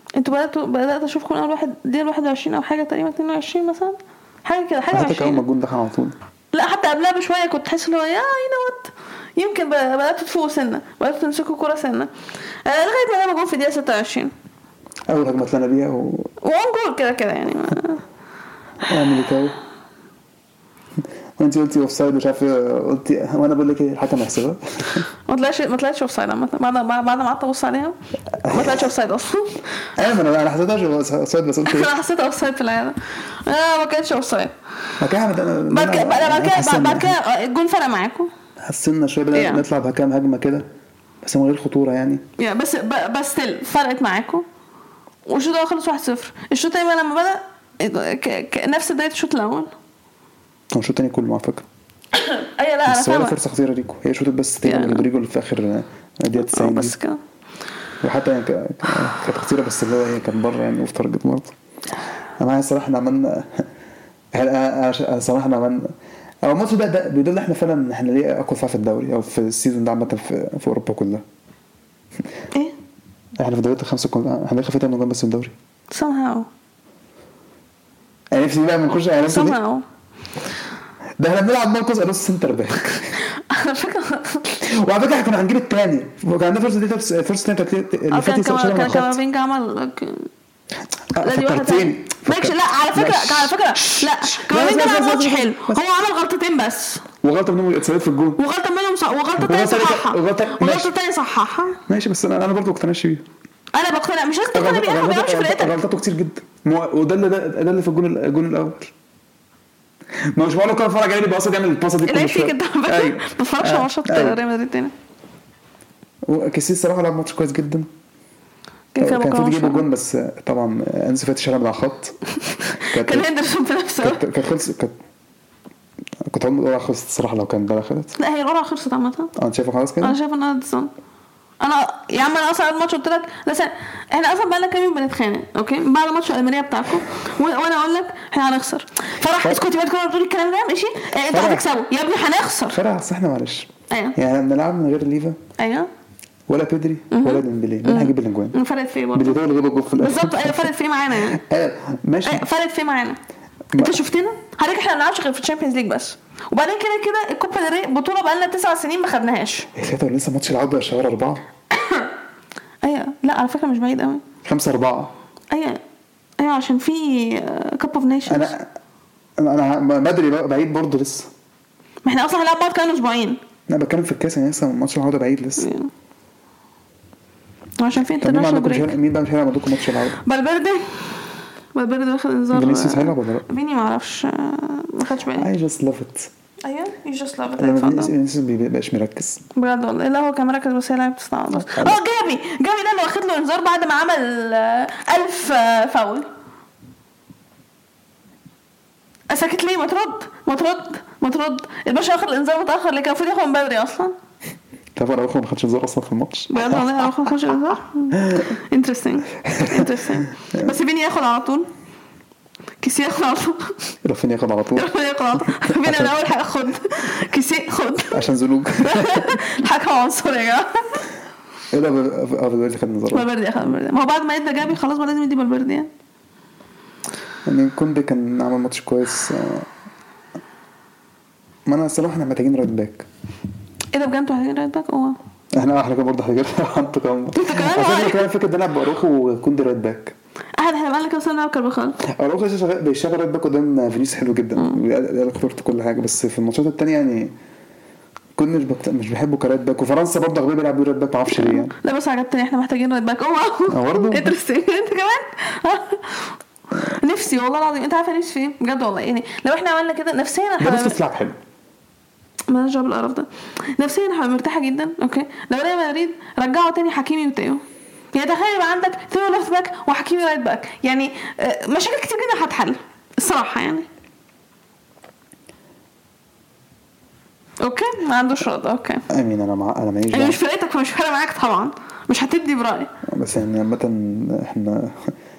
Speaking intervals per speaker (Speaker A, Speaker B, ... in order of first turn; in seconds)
Speaker A: 0.1-5.4, 6.5-12.1, 12.6-14.3, 16.4-18.0, 25.3-29.6, 31.6-34.5, 35.7-38.3, 39.3-39.6, 42.4-44.5, 45.2-49.7, 52.1-53.4, 54.6-55.1, 56.4-57.2, 75.9-76.5, 79.2-79.8, 83.2-84.6, 88.1-90.3, 91.2-97.0, 98.4-101.8, 103.7-105.7, 112.0-114.9, 118.9-119.8, 122.5-124.2, 128.2-129.3, 130.0-130.9, 131.6-142.8, 143.9-144.2, 145.6-145.9, 147.1-149.4, 149.9-151.4, 152.2-153.2, 153.7-159.7, 161.8-162.1, 162.8-164.2, 165.5-165.8, 166.4-168.5, 172.0-173.4, 175.6-175.9, 177.8-178.9, 180.2-185.5, 186.6-188.1, 189.5-196.3, 199.3-204.1, 206.5-211.7, 212.8-213.9, 214.8-218.3, 218.8-221.0, 223.1-225.9, 233.9-235.2, 237.3-238.2, 240.6-242.0, 251.3-261.0, 262.5-267.6, 268.1-273.9, 277.6-279.1, 280.1-282.9
Speaker B: 4.9-6.1, 15.1-16.3, 18.8-19.6, 21.4-25.1, 28.4-28.9, 29.9-31.9, 35.0-37.1, 38.6-40.6, 41.2-42.2, 50.7-51.6, 52.9-57.0, 58.0-61.5, 62.4-63.7, 64.3-65.9, 66.4-71.2, 73.4-75.5, 78.3-79.6, 81.2-83.2, 84.6-89.2, 91.1-95.8, 97.2-98.4, 99.4-100.9, 101.9-103.2, 104.5-108.9, 110.3-114.4, 116.2-117.9, 119.0-122.2, 122.8-123.3, 124.0-124.9, 126.2-128.2, 129.3-130.2, 141.3-141.7, 142.7-145.4, 146.5-148.6, 149.1-152.4, 153.7-154.0, 159.7-161.4, 164.4-165.1, 168.3-168.7, 169.4-171.3, 173.7-175.7, 178.2-180.2, 182.5-183.5, 185.3-186.3, 187.6-189.4, 191.6-192.0, 204.9-207.1, 208.1-208.5, 209.4-210.7, 214.0-214.9, 215.4-216.1, 218.1-219.4, 221.7-223.3, 227.4-229.7, 231.7-233.1, 235.5-240.2, 242.0-247.3, 248.3-251.7, 253.7-254.3, 260.6-261.4, 279.1-280.4, 283.0-285.1